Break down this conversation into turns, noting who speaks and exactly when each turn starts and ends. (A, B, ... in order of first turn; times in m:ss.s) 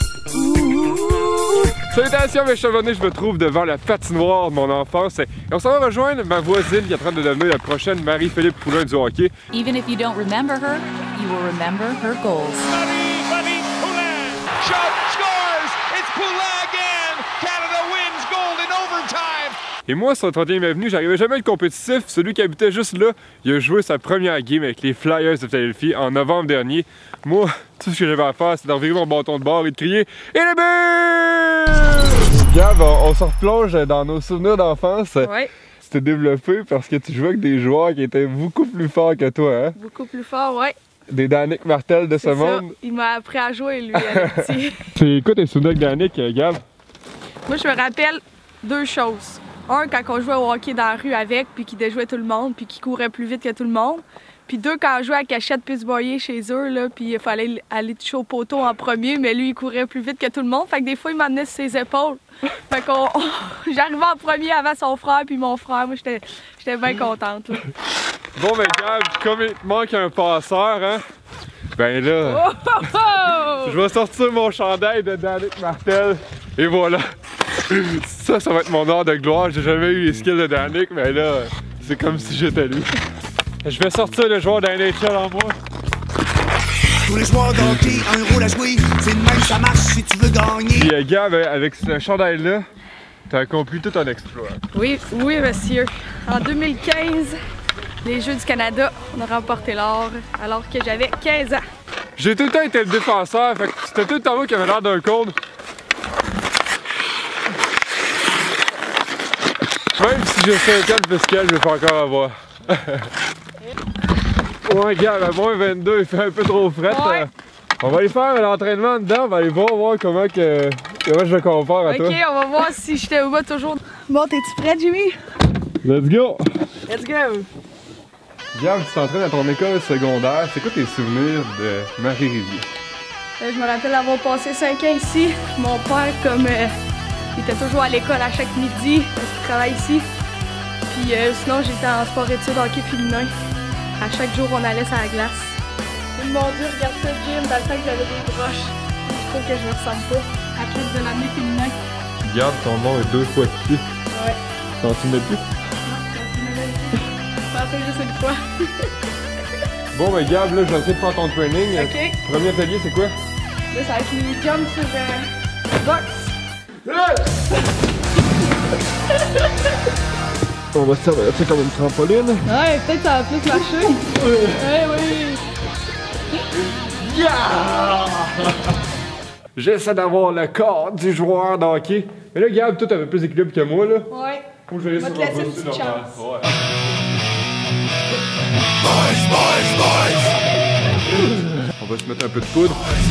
0:00.4-0:01.6 A
0:01.9-0:09.3 B
0:09.5-0:12.7 A
0:12.7-0:19.6 C
0:19.9-0:39.7 B
0:35.2-0:35.5 D
0:39.8-0:40.7 D
0:41.1-0:42.7 B
0:42.2-0:44.8 D
0:43.9-0:46.6 B
0:47.4-1:07.6 D
1:08.4-1:11.0 B
1:11.8-1:12.5 B
1:12.3-1:13.7 D
1:13.5-1:17.0 B
1:17.7-1:23.0 B
1:23.6-1:25.6 B
1:27.0-1:30.9 E
1:30.7-1:32.6 B
1:33.3-1:34.6 B
1:34.7-1:37.4 D
1:38.0-1:41.6 D
1:42.2-1:45.4 B
1:50.0-1:53.1 B
1:54.6-2:02.2 B
1:56.9-1:57.3 D
2:01.8-2:05.2 D
2:05.8-2:06.4 B
2:06.9-2:07.5 D
2:08.5-2:12.7 B
2:13.4-2:16.7 D
2:17.3-2:20.1 D
2:20.9-2:23.3 D
2:24.0-2:25.6 D
2:26.2-2:31.8 D
2:32.2-2:33.8 B
2:34.1-2:34.4 D
2:34.8-2:35.4 B
2:35.8-2:38.9 D
2:39.9-2:43.1 B
2:41.7-2:42.2 D
2:43.7-2:46.3 D
2:50.7-2:52.5 B
2:52.5-2:55.4 D
2:56.7-2:58.7 B
2:59.6-3:04.1 B
3:04.1-3:06.2 D
3:04.7-3:06.5 B
3:11.2-3:13.0 B